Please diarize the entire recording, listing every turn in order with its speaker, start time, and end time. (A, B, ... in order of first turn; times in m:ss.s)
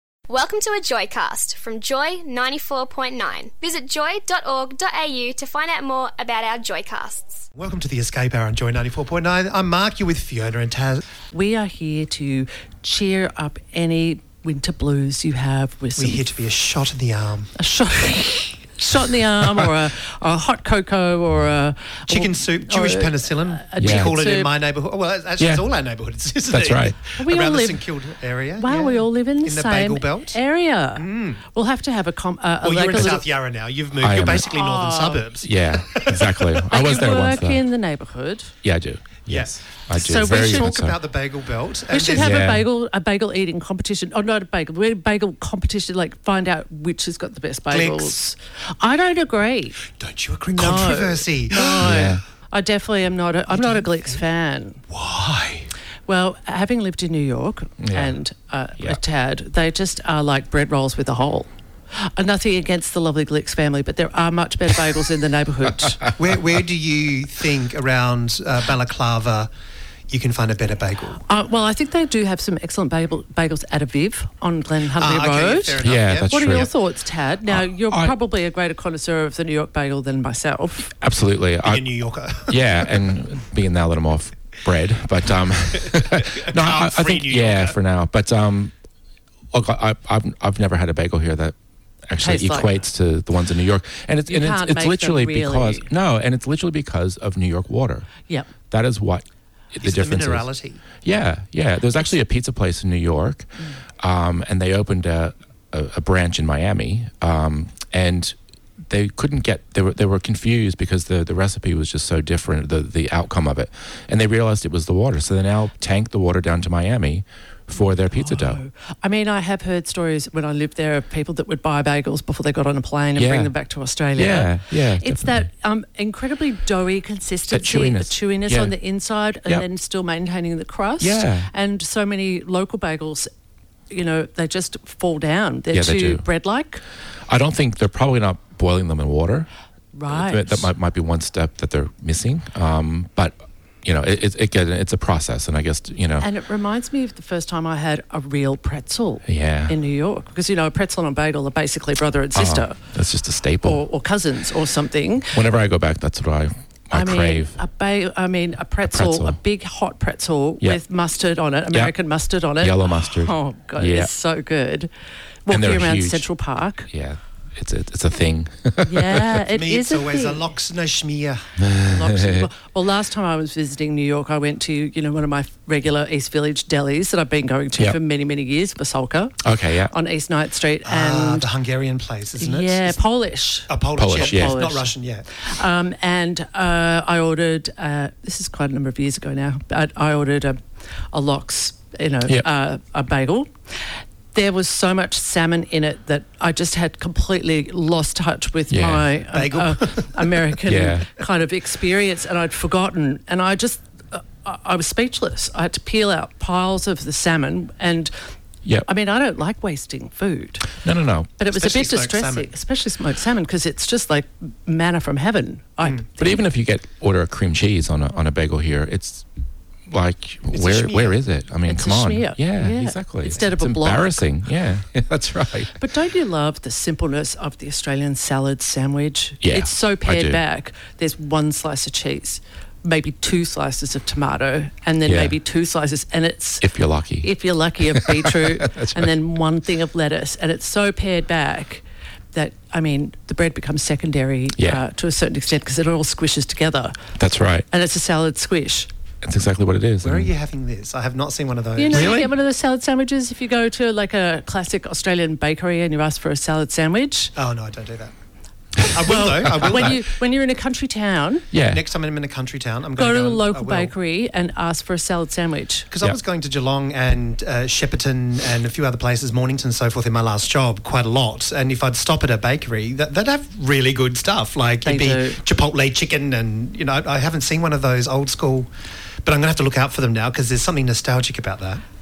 0:00.3-0:07.4 A
0:07.6-0:11.0 B
0:11.3-0:16.4 C
0:16.0-0:17.5 B
0:17.6-0:24.5 C
0:22.1-0:30.4 B
0:23.8-0:24.1 D
0:26.5-0:27.0 D
0:27.2-0:27.8 C
0:28.6-0:33.2 C
0:31.0-0:31.4 B
0:32.6-0:37.1 B
0:34.0-0:34.5 D
0:34.4-0:35.2 C
0:35.4-0:37.6 D
0:36.7-0:38.5 C
0:38.6-0:41.0 D
0:39.3-0:42.4 B
0:39.9-0:40.7 C
0:41.9-0:49.8 C
0:42.2-0:42.7 D
0:47.7-0:48.2 B
0:50.0-0:52.1 B
0:50.6-0:54.8 C
0:51.8-0:52.2 D
0:53.5-0:54.2 B
0:54.9-0:55.7 B
0:56.0-1:06.0 C
0:57.8-0:58.2 D
1:06.2-1:09.5 B
1:10.1-1:11.2 B
1:11.2-1:20.9 C
1:14.9-1:16.7 B
1:15.8-1:16.7 D
1:17.4-1:18.2 D
1:20.9-1:21.9 D
1:21.6-1:23.0 B
1:22.5-1:28.7 D
1:25.7-1:27.8 B
1:29.5-1:31.6 D
1:32.1-1:38.1 D
1:32.2-1:32.8 C
1:34.3-1:35.9 C
1:38.7-1:40.5 D
1:39.8-1:40.8 B
1:41.0-1:43.5 D
1:44.0-1:48.3 D
1:48.9-1:58.6 D
1:58.1-2:13.3 C
2:03.2-2:03.5 D
2:04.1-2:05.5 D
2:07.5-2:08.7 D
2:11.0-2:11.5 D
2:13.9-2:16.8 C
2:15.7-2:16.2 D
2:17.3-2:19.5 D
2:19.9-2:20.7 C
2:20.1-2:26.3 D
2:26.2-2:32.8 C
2:29.2-2:29.8 D
2:32.3-2:33.8 D
2:33.6-2:35.4 C
2:35.3-2:37.6 D
2:36.9-2:44.9 C
2:38.9-2:39.4 D
2:42.6-2:44.1 D
2:45.5-2:46.9 C
2:45.5-2:46.3 D
2:46.9-2:49.4 D
2:48.8-2:50.4 C
2:49.5-2:51.4 B
2:51.6-2:52.5 D
2:51.9-2:59.4 C
2:59.4-2:59.9 D
2:59.9-3:01.5 C
3:00.8-3:03.0 B
3:02.4-3:10.6 C
3:03.7-3:05.3 B
3:04.0-3:04.6 D
3:11.1-3:13.5 C
3:14.3-3:28.1 C
3:18.7-3:19.1 D
3:19.3-3:20.4 B
3:20.6-3:21.1 D
3:28.8-3:30.7 C
3:30.8-3:31.3 D
3:31.4-3:36.4 C
3:31.5-3:32.5 B
3:36.2-3:39.2 D
3:39.9-3:45.8 D
3:40.5-3:41.2 B
3:41.7-3:44.3 C
3:45.8-3:56.6 C
3:49.4-3:50.4 D
3:55.0-3:55.3 D
3:56.6-3:57.3 D
3:57.2-4:06.9 C
3:57.9-3:59.1 D
4:04.6-4:04.8 D
4:07.2-4:07.7 D
4:07.7-4:08.9 C
4:09.2-4:10.3 D
4:10.0-4:12.3 B
4:11.8-4:17.3 C
4:11.9-4:12.2 D
4:17.4-4:18.1 B
4:18.8-4:20.0 B
4:18.9-4:21.4 C
4:19.5-4:20.0 D
4:21.5-4:21.8 D
4:21.7-4:23.9 B
4:23.0-4:25.9 C
4:25.9-4:38.7 B
4:34.8-4:35.4 C
4:39.2-4:41.8 B